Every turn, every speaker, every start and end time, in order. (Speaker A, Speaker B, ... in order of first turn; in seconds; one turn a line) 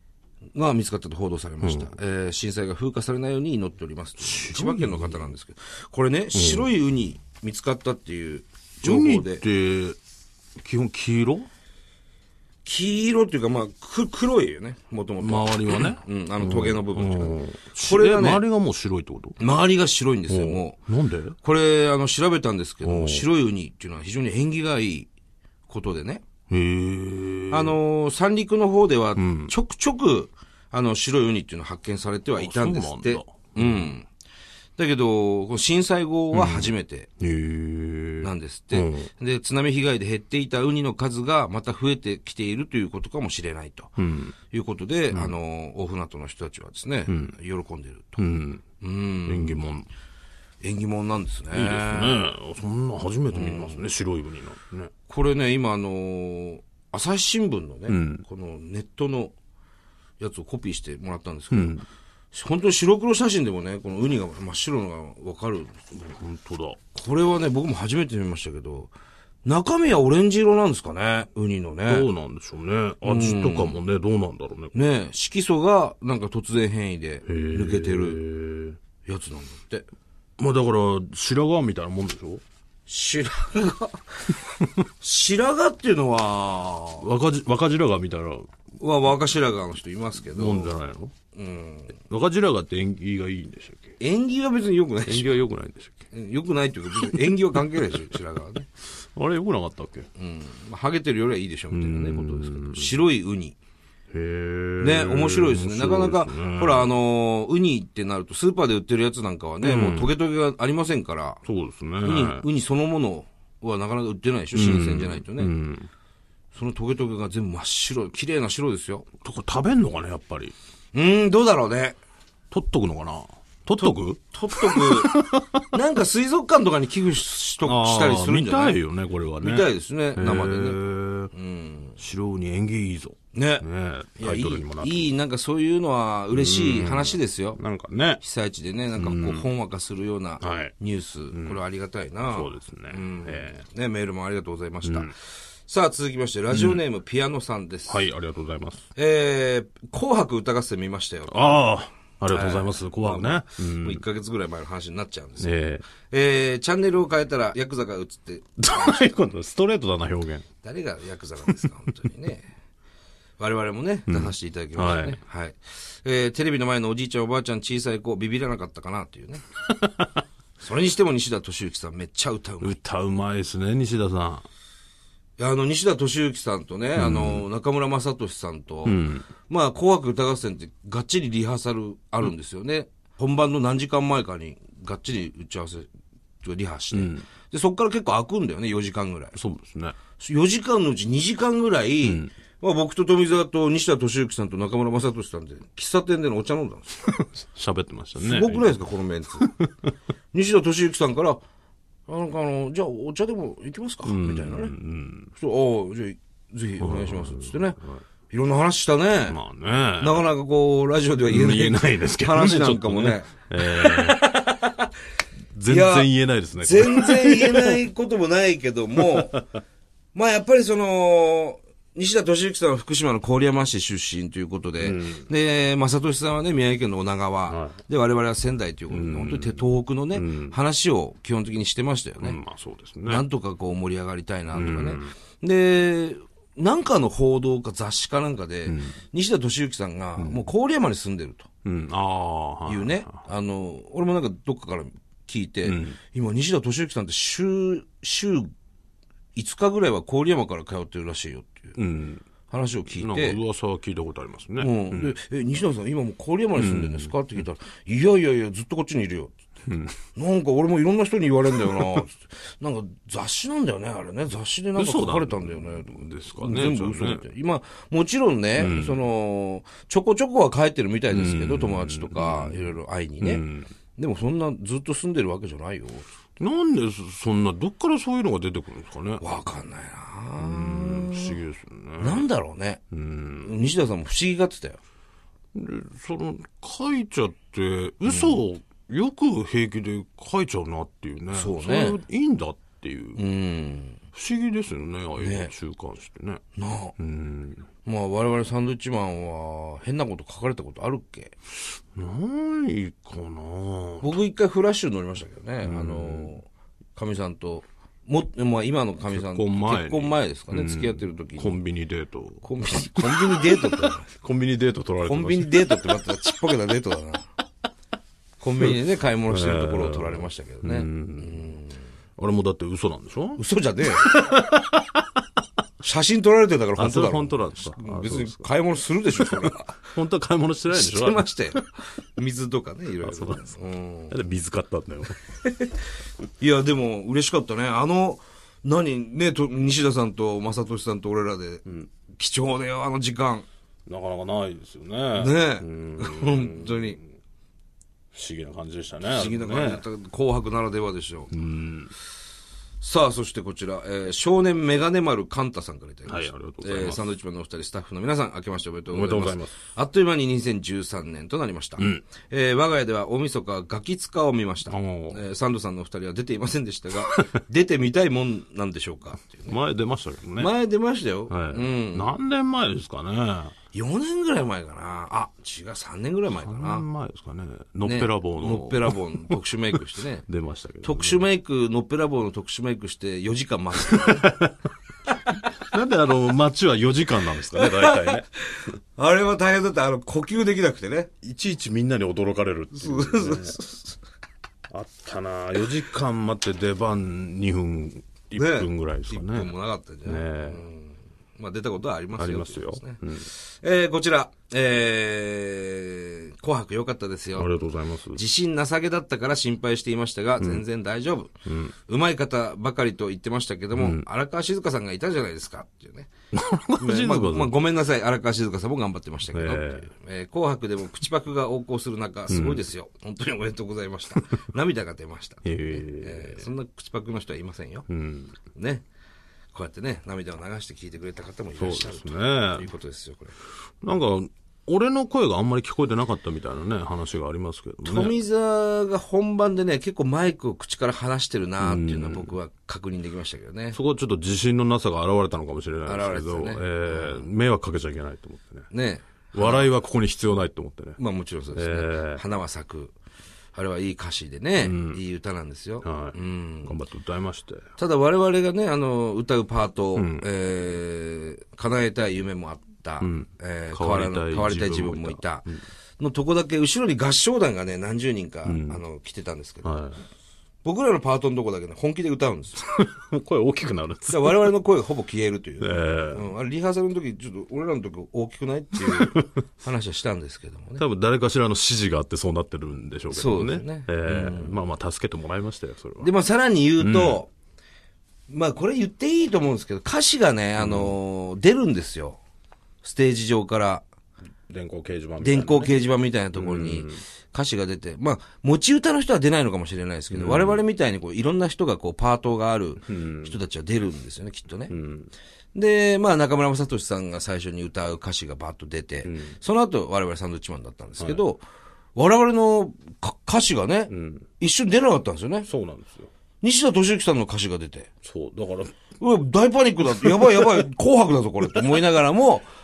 Speaker A: 0.5-9.4
Speaker B: 1.6-1.9
Speaker B: 4.2-5.3
Speaker B: 6.3-6.7
Speaker B: 8.8-10.0
Speaker B: 10.6-11.5
Speaker A: 12.6-18.4
Speaker B: 15.2-19.4
Speaker A: 19.4-20.8
Speaker B: 20.3-21.4
Speaker A: 21.4-25.1
Speaker B: 22.8-23.3
Speaker A: 25.7-26.2
Speaker B: 26.5-27.8
Speaker A: 27.5-34.1
Speaker B: 29.1-29.5
Speaker B: 32.4-33.9
Speaker A: 34.8-37.1
Speaker B: 36.3-39.1
Speaker A: 38.2-43.9
Speaker B: 44.0-44.3
Speaker A: 44.5-48.2
Speaker B: 47.1-47.3
Speaker B: 48.2-48.6
Speaker A: 48.8-49.6
Speaker B: 49.2-49.9
Speaker A: 50.6-52.2
Speaker B: 51.5-54.9
Speaker A: 53.3-53.8
Speaker A: 55.1-59.3
Speaker B: 57.9-58.2
Speaker A: 60.2-61.8
Speaker B: 61.5-61.8
Speaker A: 62.3-65.9
Speaker B: 65.9-66.8
Speaker A: 66.9-68.9
Speaker A: 69.4-72.1
Speaker B: 71.9-74.7
Speaker A: 73.0-73.8
Speaker A: 74.7-78.2
Speaker B: 77.2-78.8
Speaker A: 79.0-79.9
Speaker B: 80.4-82.4
Speaker A: 82.9-84.4
Speaker A: 85.0-87.1
Speaker B: 87.0-88.5
Speaker A: 88.8-90.8
Speaker B: 90.3-91.1
Speaker A: 91.3-92.0
Speaker B: 92.1-94.0
Speaker A: 94.0-95.4
Speaker B: 95.0-96.1
Speaker A: 96.1-98.7
Speaker B: 97.0-97.4
Speaker B: 99.1-100.1
Speaker A: 100.2-103.5
Speaker B: 101.7-103.0
Speaker B: 104.1-106.9
Speaker A: 104.8-111.4
Speaker B: 109.6-110.1
Speaker B: 111.4-112.4
Speaker A: 112.0-115.5
Speaker B: 114.5-115.9
Speaker A: 116.5-119.0
Speaker B: 119.2-120.5
Speaker A: 120.9-122.0
Speaker B: 122.5-125.7
Speaker A: 123.8-125.2
Speaker A: 125.7-128.8
Speaker B: 127.6-131.3
Speaker A: 129.4-130.8
Speaker A: 131.3-132.0
Speaker B: 132.0-135.1
Speaker A: 133.3-133.6
Speaker A: 134.2-137.6
Speaker B: 136.3-138.2
Speaker A: 138.2-148.0
Speaker B: 139.0-139.5
Speaker B: 140.4-140.7
Speaker B: 141.3-141.6
Speaker B: 142.3-143.6
Speaker B: 144.8-145.1
Speaker B: 146.5-146.8
Speaker B: 147.9-148.8
Speaker A: 148.9-151.6
Speaker B: 151.3-154.0
Speaker A: 152.3-159.0
Speaker B: 155.4-155.8
Speaker B: 158.6-160.5
Speaker A: 160.6-162.5
Speaker A: 163.4-169.4
Speaker B: 164.1-165.2
Speaker B: 169.7-170.2
Speaker A: 170.6-172.8
Speaker B: 172.6-174.4
Speaker A: 175.4-185.9
Speaker B: 176.9-177.4
Speaker B: 178.8-179.3
Speaker A: 186.4-189.4
Speaker B: 186.9-187.2
Speaker B: 189.3-189.9
Speaker A: 190.2-197.1
Speaker B: 192.0-192.3
Speaker B: 197.2-198.7
Speaker A: 198.2-199.5
Speaker B: 199.4-199.7
Speaker A: 200.3-201.4
Speaker A: 202.1-204.7
Speaker B: 204.0-205.3
Speaker A: 205.3-207.8
Speaker B: 206.8-208.0
Speaker A: 208.3-209.4
Speaker B: 209.3-210.2
Speaker A: 210.0-214.8
Speaker B: 211.3-214.3
Speaker B: 215.5-217.8
Speaker A: 215.7-219.4
Speaker A: 220.1-232.4
Speaker B: 224.8-225.2
Speaker B: 227.5-227.8
Speaker B: 228.9-230.6
Speaker B: 232.2-233.2
Speaker A: 233.1-241.5
Speaker B: 234.5-235.1
Speaker B: 238.7-239.0
Speaker B: 240.2-240.4
Speaker B: 241.6-243.1
Speaker A: 242.7-248.5
Speaker B: 245.6-246.0
Speaker A: 249.3-251.8
Speaker B: 251.8-252.2
Speaker A: 252.5-253.4
Speaker B: 252.9-255.1
Speaker A: 254.6-259.3
Speaker B: 256.6-257.1
Speaker B: 259.7-260.0
Speaker A: 260.1-273.4
Speaker B: 264.8-267.2
Speaker B: 268.6-269.0
Speaker B: 271.1-273.7
Speaker A: 273.9-276.1
Speaker B: 276.4-279.2
Speaker A: 279.2-281.4
Speaker B: 280.4-282.2
Speaker A: 282.0-282.8
Speaker B: 282.9-283.5
Speaker A: 283.4-284.8
Speaker B: 285.5-293.2
Speaker A: 288.1-288.4
Speaker A: 291.3-292.0
Speaker A: 293.1-294.0
Speaker B: 294.1-296.4
Speaker A: 295.2-295.5
Speaker A: 296.6-296.9
Speaker B: 297.0-297.7
Speaker A: 297.8-301.3
Speaker B: 301.9-304.1
Speaker A: 304.0-311.6
Speaker B: 305.6-306.3
Speaker B: 309.1-312.4
Speaker A: 312.4-314.1
Speaker B: 312.9-313.6
Speaker B: 314.1-315.8
Speaker A: 315.0-317.3
Speaker A: 318.4-321.8
Speaker B: 319.3-321.4
Speaker B: 322.2-323.4
Speaker A: 323.4-324.1
Speaker B: 324.0-325.1
Speaker A: 325.8-329.8
Speaker B: 326.8-328.5
Speaker B: 329.2-331.6
Speaker A: 330.7-334.1
Speaker B: 333.0-333.4
Speaker B: 334.1-335.2
Speaker A: 335.4-335.8
Speaker A: 336.4-343.4
Speaker B: 343.9-347.0
Speaker A: 345.1-347.0
Speaker B: 348.1-349.8
Speaker A: 349.0-351.3
Speaker B: 351.3-351.9
Speaker A: 352.8-369.6
Speaker B: 356.1-357.0
Speaker B: 358.9-359.5
Speaker B: 361.8-362.0
Speaker B: 364.7-365.2
Speaker B: 367.0-367.3
Speaker B: 369.5-370.5
Speaker A: 370.4-372.1
Speaker B: 371.3-373.5
Speaker A: 373.7-376.8
Speaker B: 376.4-379.0
Speaker A: 377.8-380.2
Speaker B: 380.2-381.3
Speaker A: 380.8-384.3
Speaker B: 383.9-384.6
Speaker B: 385.6-388.3
Speaker A: 387.6-391.1
Speaker B: 391.2-393.6
Speaker A: 392.8-393.9
Speaker B: 394.7-399.5
Speaker A: 398.3-407.6
Speaker B: 400.0-400.6
Speaker B: 402.2-403.3
Speaker B: 407.4-408.2
Speaker A: 408.1-416.1
Speaker B: 411.4-411.7
Speaker B: 413.8-414.1
Speaker B: 416.3-417.6
Speaker A: 416.8-427.9
Speaker B: 419.3-419.9
Speaker B: 422.3-422.6
Speaker B: 425.4-426.5
Speaker B: 427.9-428.4
Speaker A: 428.5-428.8
Speaker A: 429.5-433.4
Speaker B: 431.6-432.7
Speaker B: 433.8-438.1
Speaker A: 437.8-443.8
Speaker B: 441.6-442.3
Speaker B: 443.7-448.7
Speaker A: 445.9-447.2
Speaker A: 448.7-449.7
Speaker B: 449.3-451.0
Speaker A: 451.0-452.9
Speaker B: 451.5-452.2
Speaker A: 453.5-456.7
Speaker B: 454.6-455.0
Speaker B: 455.8-457.6
Speaker A: 457.8-465.5
Speaker B: 459.9-460.3
Speaker B: 463.0-465.6
Speaker A: 466.0-469.8
Speaker B: 468.4-468.8
Speaker B: 469.6-470.0
Speaker A: 470.6-472.6
Speaker B: 472.7-474.5
Speaker A: 474.1-480.8
Speaker B: 475.6-476.3
Speaker B: 478.8-479.2
Speaker B: 480.8-486.1
Speaker A: 483.1-484.6
Speaker A: 486.0-487.3
Speaker B: 486.8-487.2
Speaker A: 488.3-492.2
Speaker B: 490.6-490.9
Speaker A: 492.8-493.8
Speaker B: 494.5-495.7
Speaker A: 495.2-504.7
Speaker B: 496.3-497.0
Speaker B: 500.1-500.6
Speaker B: 502.9-503.3
Speaker B: 504.7-505.1
Speaker A: 505.5-511.4
Speaker B: 509.0-509.4
Speaker A: 511.9-515.5
Speaker B: 513.9-514.3
Speaker B: 515.5-516.1
Speaker A: 516.4-517.9
Speaker B: 518.0-518.8
Speaker A: 519.0-522.5